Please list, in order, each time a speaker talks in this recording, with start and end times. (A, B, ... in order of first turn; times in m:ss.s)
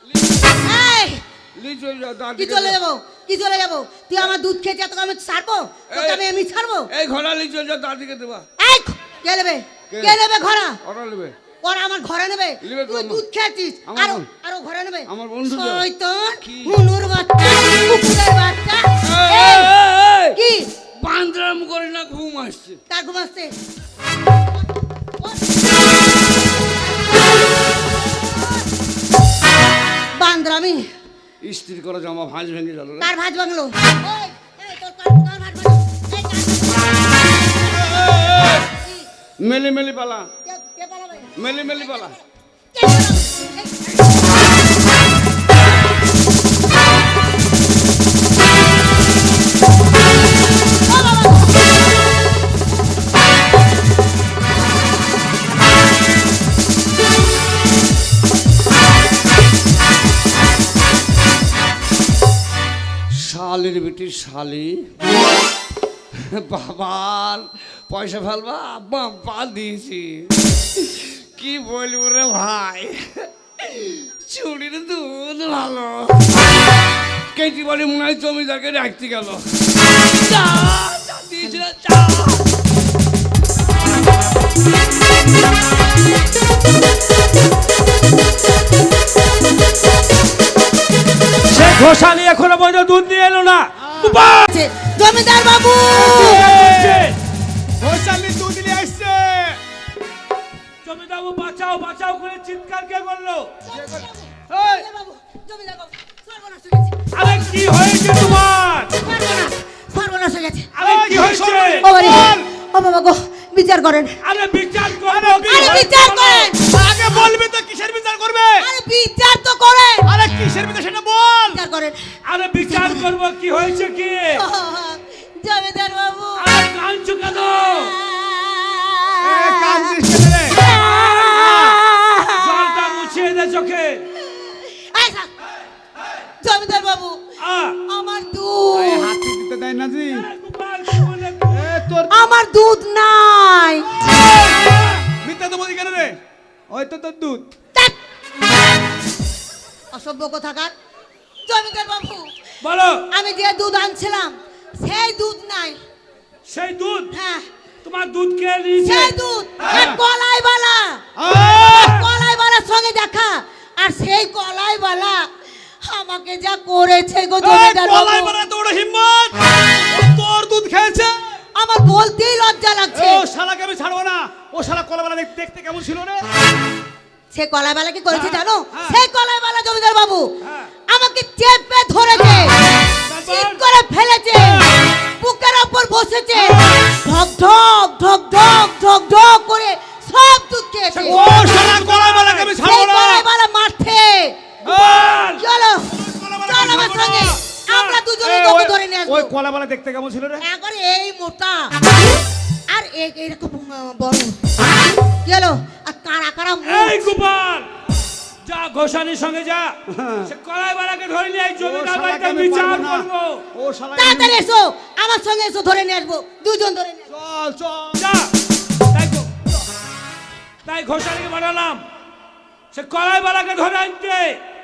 0:00.1-0:00.4 A
0:00.5-0:01.2 B
0:01.5-0:02.8 A
0:02.4-0:06.9 B
0:05.9-0:06.2 A
0:06.9-0:08.5 A
0:08.6-0:10.8 B
0:09.9-0:10.2 A
0:10.8-0:11.3 A
0:11.6-0:19.7 B
0:12.6-0:13.2 A
0:13.8-0:14.3 A
0:15.1-0:15.8 A
0:16.4-0:16.7 A
0:19.0-0:20.4 A
0:20.3-0:20.7 B
0:20.9-0:22.8 A
0:22.9-0:23.5 B
0:25.2-0:25.8 B
0:26.4-0:27.1 B
0:27.8-0:28.6 B
0:30.2-0:30.9 B
0:31.4-0:33.1 A
0:33.0-0:39.1 B
0:37.8-0:38.6 A
0:39.4-0:40.3 A
0:40.4-0:44.1 B
0:41.4-0:42.1 A
0:50.7-0:51.7 B
1:03.1-1:04.9 A
1:06.1-1:16.4 A
1:17.3-1:22.5 A
1:31.5-1:34.5 C
1:34.3-1:36.6 B
1:36.0-1:37.2 C
1:36.1-1:37.1 D
1:37.8-1:39.6 D
1:40.8-1:43.5 C
1:43.6-1:47.5 B
1:44.5-1:44.8 D
1:47.1-1:49.0 C
1:48.9-1:50.7 B
1:50.8-1:51.9 C
1:50.8-1:52.5 D
1:51.8-1:54.2 B
1:54.2-1:55.9 C
1:55.0-1:58.7 D
1:55.4-1:56.7 B
1:58.6-2:00.2 B
2:00.0-2:01.6 D
2:01.5-2:02.0 B
2:02.2-2:04.4 C
2:02.6-2:03.1 B
2:04.3-2:06.6 B
2:06.4-2:07.9 C
2:07.6-2:13.2 B
2:09.2-2:10.7 D
2:10.7-2:11.4 C
2:11.3-2:11.8 D
2:12.4-2:14.0 C
2:14.1-2:15.3 B
2:16.4-2:17.2 B
2:17.4-2:17.8 C
2:17.8-2:19.1 B
2:18.8-2:20.2 D
2:20.0-2:21.8 C
2:21.5-2:22.1 D
2:22.1-2:23.9 B
2:24.1-2:25.0 C
2:25.1-2:27.5 D
2:29.9-2:30.7 B
2:31.4-2:32.3 B
2:32.6-2:33.1 C
2:33.1-2:35.8 B
2:36.5-2:37.1 C
2:37.1-2:37.4 B
2:37.8-2:39.1 C
2:38.8-2:45.3 B
2:39.7-2:40.0 D
2:41.2-2:41.9 D
2:41.5-2:42.0 C
2:45.8-2:48.4 B
2:47.4-2:51.4 D
2:51.6-2:53.2 B
2:52.9-2:56.3 D
2:57.3-3:00.2 B
2:58.2-2:59.0 D
3:00.4-3:00.7 C
3:00.9-3:11.2 B
3:03.0-3:03.6 C
3:10.9-3:12.6 C
3:11.0-3:13.2 D
3:12.6-3:14.5 B
3:14.6-3:15.2 D
3:14.6-3:15.4 C
3:15.4-3:19.3 B
3:15.9-3:17.4 D
3:17.7-3:18.0 C
3:18.2-3:20.4 D
3:20.4-3:21.7 B
3:22.7-3:27.1 B
3:26.6-3:27.7 C
3:28.4-3:33.5 C
3:29.9-3:30.3 A
3:31.6-3:34.4 D
3:34.0-3:37.1 B
3:37.1-3:38.0 D
3:37.9-3:38.3 C
3:38.9-3:39.4 C
3:40.6-3:41.8 C
3:42.7-3:44.4 C